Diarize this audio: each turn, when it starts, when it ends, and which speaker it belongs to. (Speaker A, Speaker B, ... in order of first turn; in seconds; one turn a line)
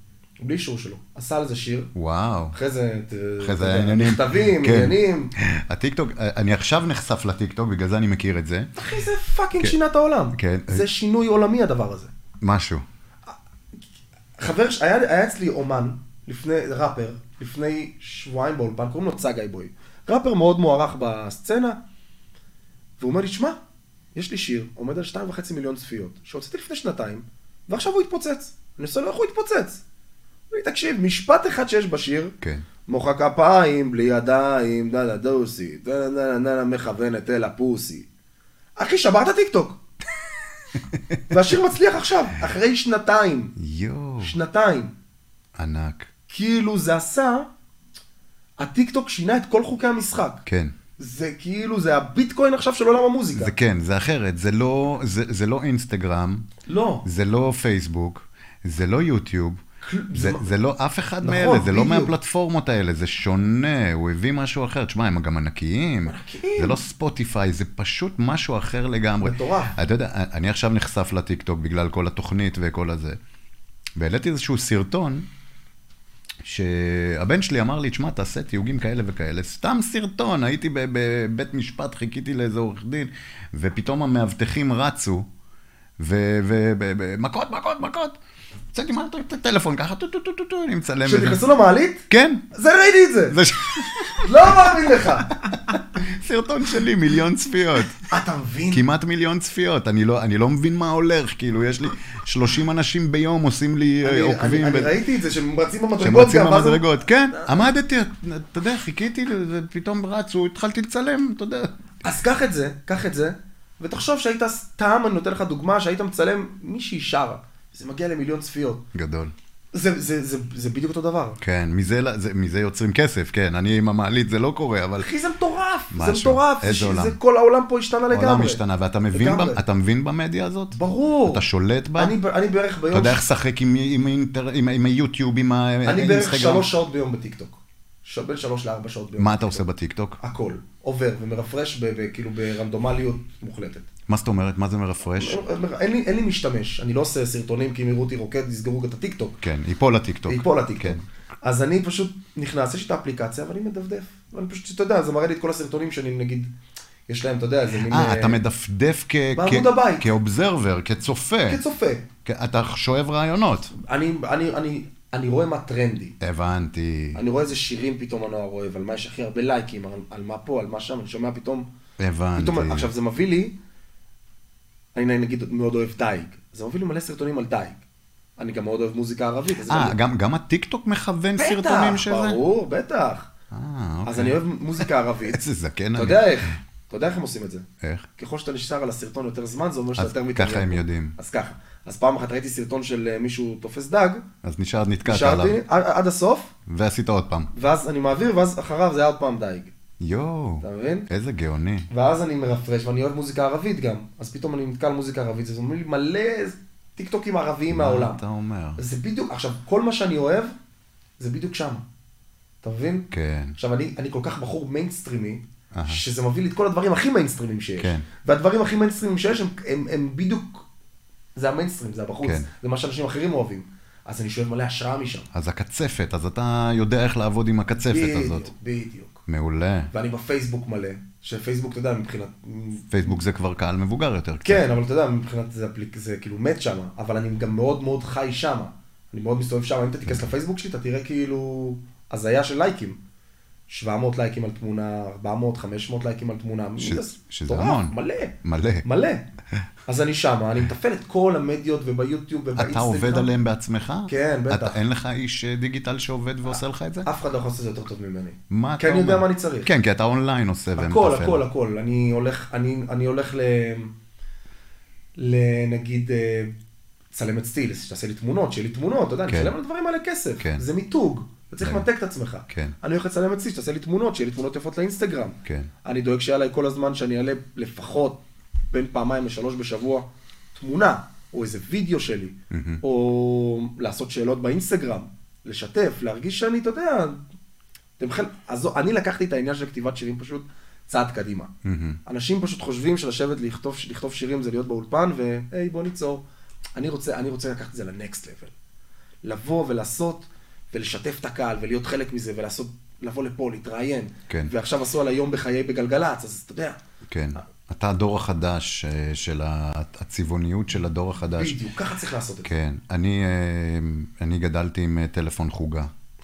Speaker A: 0.4-1.9
Speaker B: 1.9-2.5
Speaker A: 2.5-5.3
Speaker B: 3.4-8.7
Speaker A: 8.8-12.1
Speaker B: 10.3-10.8
Speaker B: 12.4-12.8
Speaker A: 14.4-21.8
Speaker A: 23.0-23.6
Speaker A: 24.1-29.8
Speaker A: 30.5-32.3
Speaker B: 32.4-32.6
Speaker A: 32.9-38.1
Speaker A: 38.8-39.8
Speaker B: 40.7-41.2
Speaker A: 41.3-43.5
Speaker B: 43.5-44.3
Speaker A: 44.2-44.9
Speaker B: 45.5-46.1
Speaker A: 46.3-47.5
Speaker A: 48.6-50.4
Speaker B: 50.5-50.7
Speaker A: 51.0-53.5
Speaker B: 53.3-56.5
Speaker A: 56.7-57.0
Speaker B: 57.0-59.6
Speaker A: 59.8-60.5
Speaker B: 60.1-73.2
Speaker A: 61.2-62.1
Speaker A: 66.0-66.8
Speaker A: 69.2-69.7
Speaker B: 74.0-75.3
Speaker B: 76.4-85.3
Speaker B: 86.0-88.2
Speaker B: 88.7-91.4
Speaker A: 91.0-93.4
Speaker B: 92.1-92.4
Speaker B: 93.3-94.7
Speaker A: 94.2-95.5
Speaker B: 95.3-98.0
Speaker A: 98.0-98.8
Speaker B: 98.7-104.9
Speaker A: 104.0-107.7
Speaker B: 106.0-111.7
Speaker A: 112.0-118.8
Speaker B: 118.9-119.3
Speaker A: 119.7-121.4
Speaker B: 121.4-125.1
Speaker A: 125.0-129.6
Speaker B: 125.9-127.2
Speaker B: 128.1-132.2
Speaker A: 130.7-131.4
Speaker A: 132.0-133.2
Speaker B: 132.9-136.7
Speaker A: 135.8-139.6
Speaker B: 139.2-140.2
Speaker A: 140.2-143.9
Speaker B: 144.1-145.4
Speaker A: 145.2-149.4
Speaker B: 149.4-151.0
Speaker A: 150.3-156.5
Speaker A: 157.1-158.4
Speaker B: 157.9-161.6
Speaker A: 159.3-160.1
Speaker A: 161.5-162.1
Speaker B: 162.2-163.7
Speaker A: 163.7-166.2
Speaker B: 166.2-167.2
Speaker A: 167.1-171.7
Speaker B: 172.0-172.9
Speaker A: 172.3-173.6
Speaker A: 174.9-177.8
Speaker A: 178.4-180.0
Speaker B: 179.7-182.4
Speaker A: 181.3-183.3
Speaker B: 183.5-186.5
Speaker A: 184.0-185.4
Speaker A: 185.9-187.7
Speaker B: 187.8-188.1
Speaker A: 188.2-194.2
Speaker B: 190.0-191.1
Speaker B: 194.4-195.6
Speaker A: 195.0-196.5
Speaker B: 196.7-197.5
Speaker A: 197.5-199.7
Speaker B: 200.0-201.9
Speaker A: 200.6-201.1
Speaker A: 201.9-208.2
Speaker B: 207.7-208.8
Speaker A: 208.8-210.5
Speaker A: 211.2-211.8
Speaker A: 212.6-220.7
Speaker B: 213.1-213.5
Speaker B: 215.7-216.0
Speaker B: 217.8-218.1
Speaker A: 221.3-225.3
Speaker B: 225.3-228.5
Speaker A: 227.9-229.2
Speaker B: 229.3-229.9
Speaker A: 229.9-233.2
Speaker B: 232.9-234.7
Speaker A: 234.4-243.0
Speaker A: 243.7-249.3
Speaker B: 246.8-248.8
Speaker A: 249.8-253.3
Speaker B: 252.6-257.1
Speaker A: 254.1-254.8
Speaker A: 257.0-259.7
Speaker B: 258.5-261.4
Speaker A: 260.8-263.9
Speaker A: 265.2-266.5
Speaker A: 267.1-287.2
Speaker B: 269.3-269.5
Speaker B: 271.6-271.9
Speaker B: 272.5-272.7
Speaker B: 275.4-275.7
Speaker B: 282.5-282.8
Speaker A: 288.0-291.5
Speaker B: 291.6-292.0
Speaker A: 292.1-296.2
Speaker A: 296.8-298.5
Speaker A: 299.2-306.8
Speaker B: 307.1-311.6
Speaker A: 311.4-312.5
Speaker B: 312.4-315.9